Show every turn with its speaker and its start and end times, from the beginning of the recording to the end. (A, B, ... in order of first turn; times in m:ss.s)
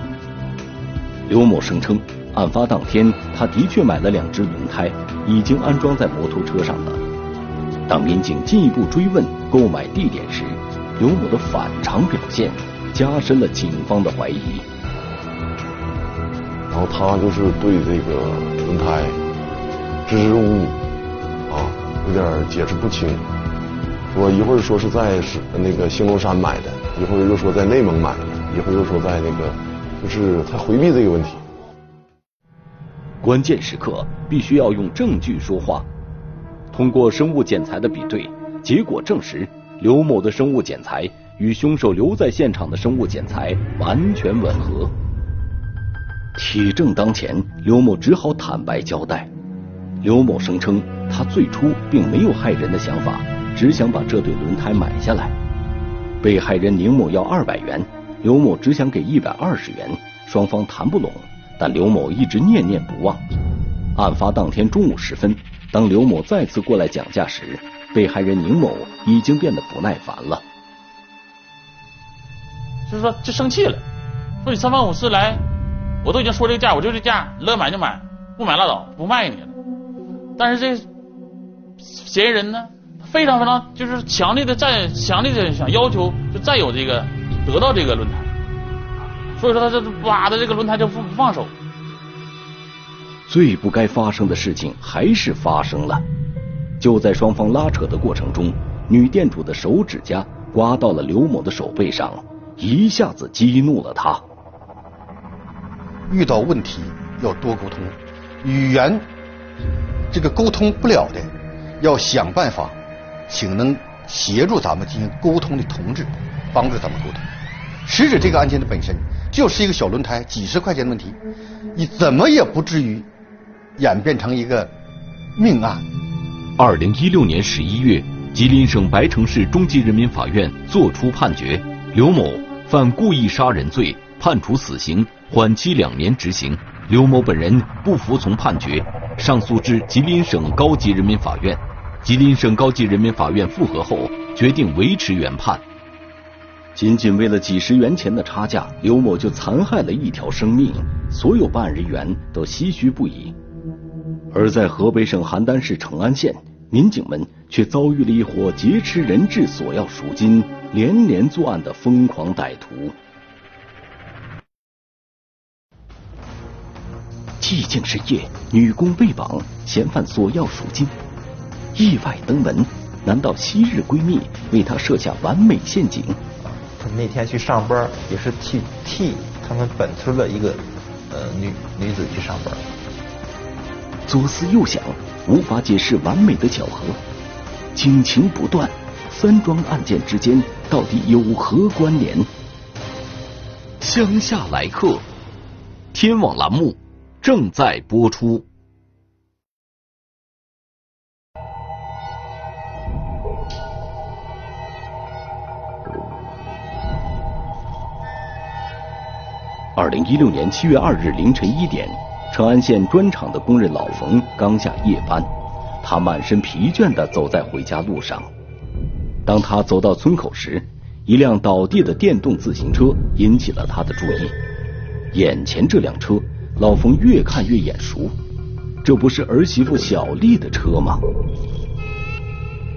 0:01.3-0:07.0 A
0:07.9-0:14.6 A
0:16.7-0:19.2 B
0:20.1-0:20.8 B
0:21.5-0:23.2 B
0:24.1-0:31.4 B
0:33.2-0:35.9 A
0:36.7-0:44.9 A
0:46.4-0:49.3 A
0:50.0-0:55.4 A
0:56.2-1:03.2 A
1:04.0-1:10.4 A
1:12.9-1:13.8 C
1:14.4-1:15.4 C
1:16.0-1:19.6 C
1:20.4-1:20.9 C
1:21.8-1:28.3 C
1:29.4-1:31.5 C
1:33.3-1:36.0 A
1:36.8-1:44.2 A
1:46.1-1:49.1 D
1:50.1-1:52.8 D
1:53.3-1:57.2 D
1:57.8-2:01.2 D
2:01.7-2:03.1 D
2:03.8-2:04.7 D
2:05.4-2:05.9 D
2:06.6-2:25.6 A
2:26.8-2:33.3 A
2:34.3-2:42.9 A
2:47.4-2:50.9 A
2:51.8-2:56.2 A
2:56.7-3:02.6 E
3:04.1-3:07.0 A
3:07.8-3:12.3 A
3:13.8-3:15.0 A
3:15.9-3:18.4 A
3:29.8-3:35.3 A
3:35.8-3:38.3 A
3:39.3-3:44.4 A
3:45.1-3:48.1 A
3:48.8-3:51.0 A